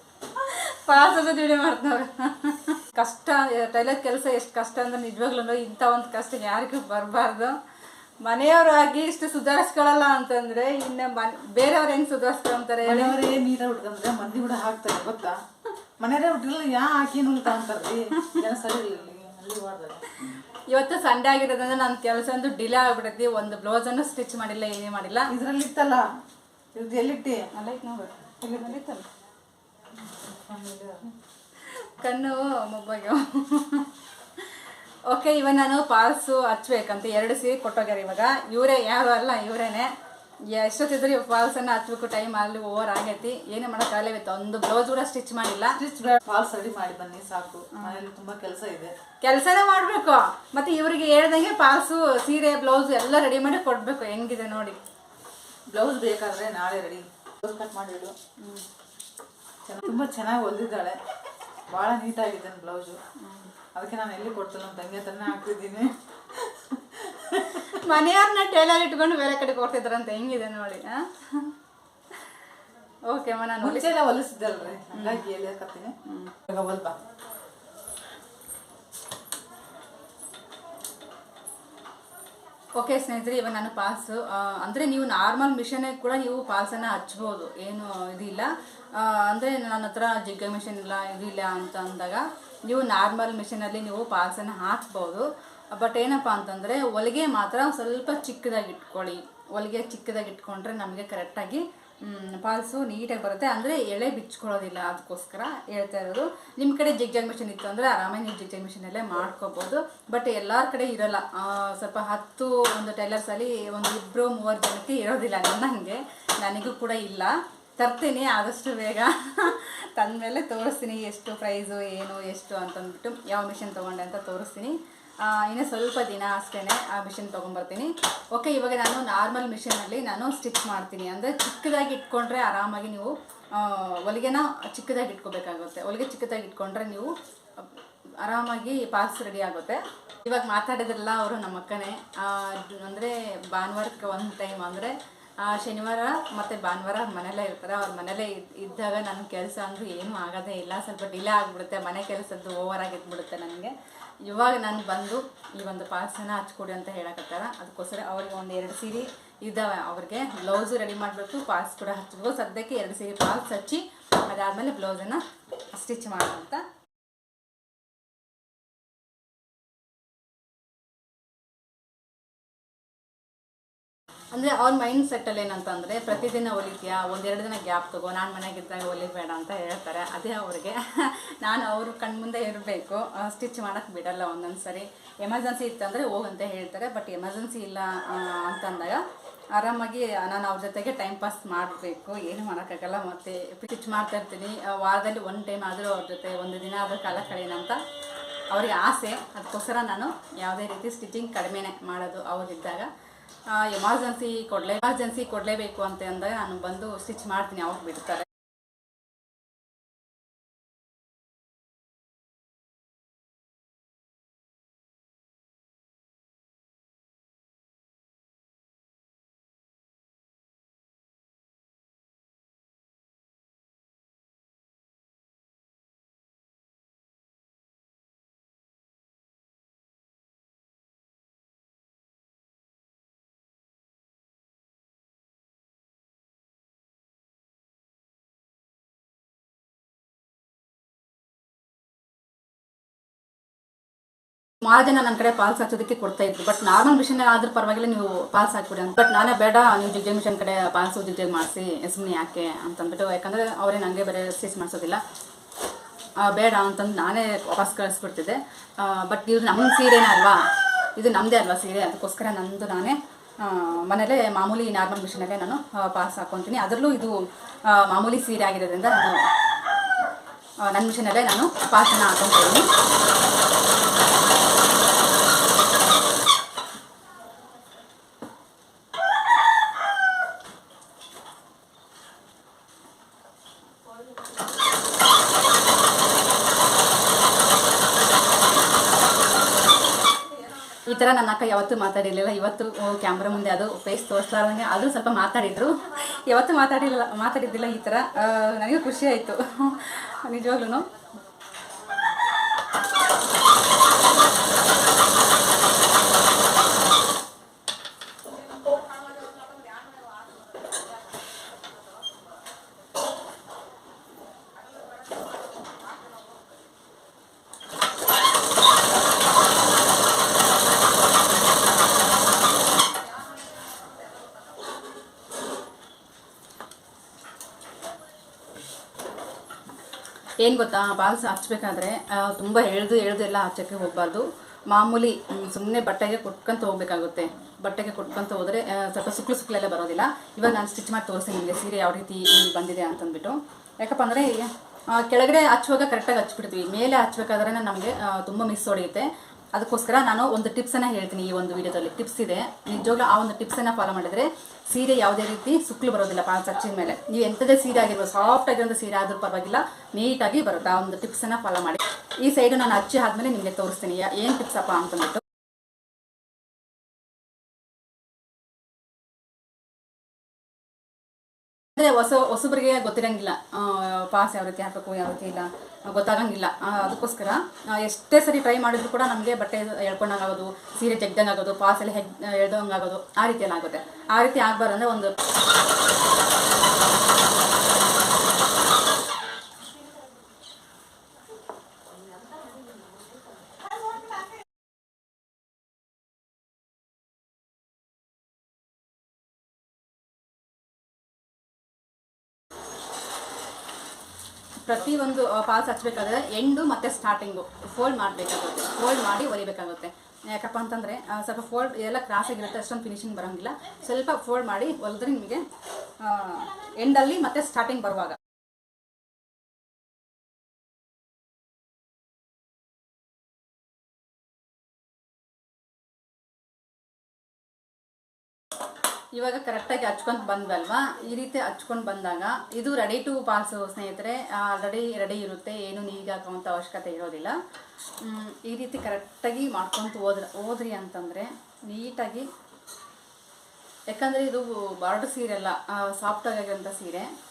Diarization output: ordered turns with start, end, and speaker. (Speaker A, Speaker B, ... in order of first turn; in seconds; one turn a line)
Speaker A: 0.3-7.5
Speaker A: 8.2-13.2
Speaker B: 12.8-15.4
Speaker B: 16.0-20.1
Speaker A: 20.2-25.3
Speaker B: 25.3-26.1
Speaker B: 26.7-27.5
Speaker A: 27.5-29.0
Speaker B: 28.4-28.8
Speaker B: 30.2-31.1
Speaker A: 31.6-39.9
Speaker A: 40.5-45.8
Speaker B: 45.8-48.9
Speaker A: 49.2-54.8
Speaker B: 55.7-58.1
Speaker B: 59.6-61.0
Speaker B: 61.7-63.0
Speaker A: 63.2-63.5
Speaker B: 63.7-67.8
Speaker A: 67.6-71.5
Speaker A: 73.1-73.9
Speaker B: 73.6-76.0
Speaker A: 74.9-75.2
Speaker A: 76.0-76.3
Speaker B: 76.5-77.0
Speaker A: 82.8-137.7
Speaker A: 138.2-166.7
Speaker A: 174.3-189.0
Speaker A: 189.5-197.8
Speaker A: 198.5-202.9
Speaker A: 203.5-208.3
Speaker A: 244.6-255.0
Speaker A: 256.2-260.4
Speaker A: 260.9-269.2
Speaker A: 270.6-272.7
Speaker A: 290.7-300.9
Speaker A: 330.4-365.2
Speaker A: 371.8-385.1
Speaker A: 404.6-415.5
Speaker A: 416.0-418.2
Speaker A: 429.1-437.4
Speaker A: 438.0-442.3
Speaker A: 443.9-447.1